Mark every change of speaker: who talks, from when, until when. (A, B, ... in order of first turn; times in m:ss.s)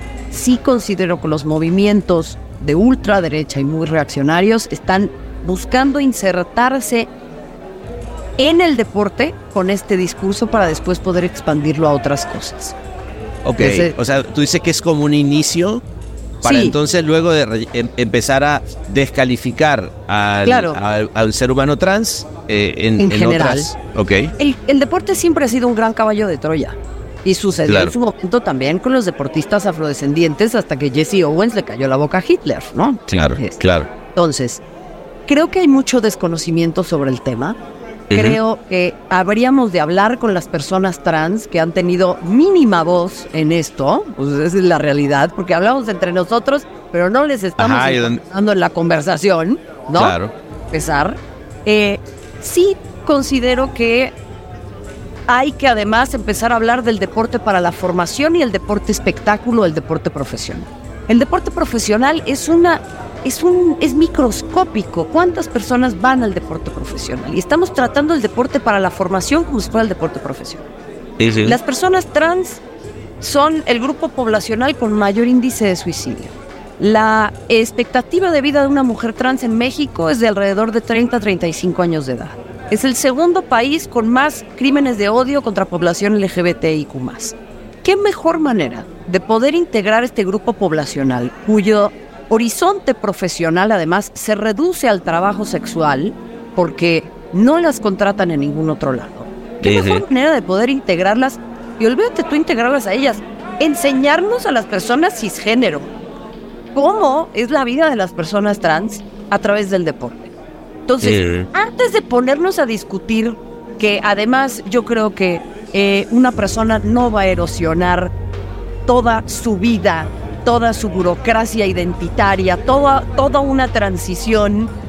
0:00.3-0:07.1 A
0:08.4-0:12.8 A
0:13.4-0:15.8 B
0:13.6-0:13.9 A
0:16.4-0:24.3 B
0:16.4-0:16.8 A
0:20.4-0:20.8 A
0:23.0-0:23.7 A
0:24.4-0:33.6 A
0:27.7-0:27.9 B
0:33.1-0:33.9 B
0:34.1-0:34.6 A
0:35.3-0:37.6 A
0:38.1-0:38.4 B
0:38.1-0:50.2 A
0:47.6-0:48.2 B
0:49.9-0:50.3 B
0:50.7-0:54.1 A
0:55.3-1:10.6 A
1:11.2-1:11.6 B
1:11.4-1:12.6 A
1:13.2-1:45.9 A
1:39.6-1:40.0 B
1:46.7-1:50.3 A
1:50.9-1:58.1 A
1:51.0-1:51.5 B
1:58.8-2:04.7 A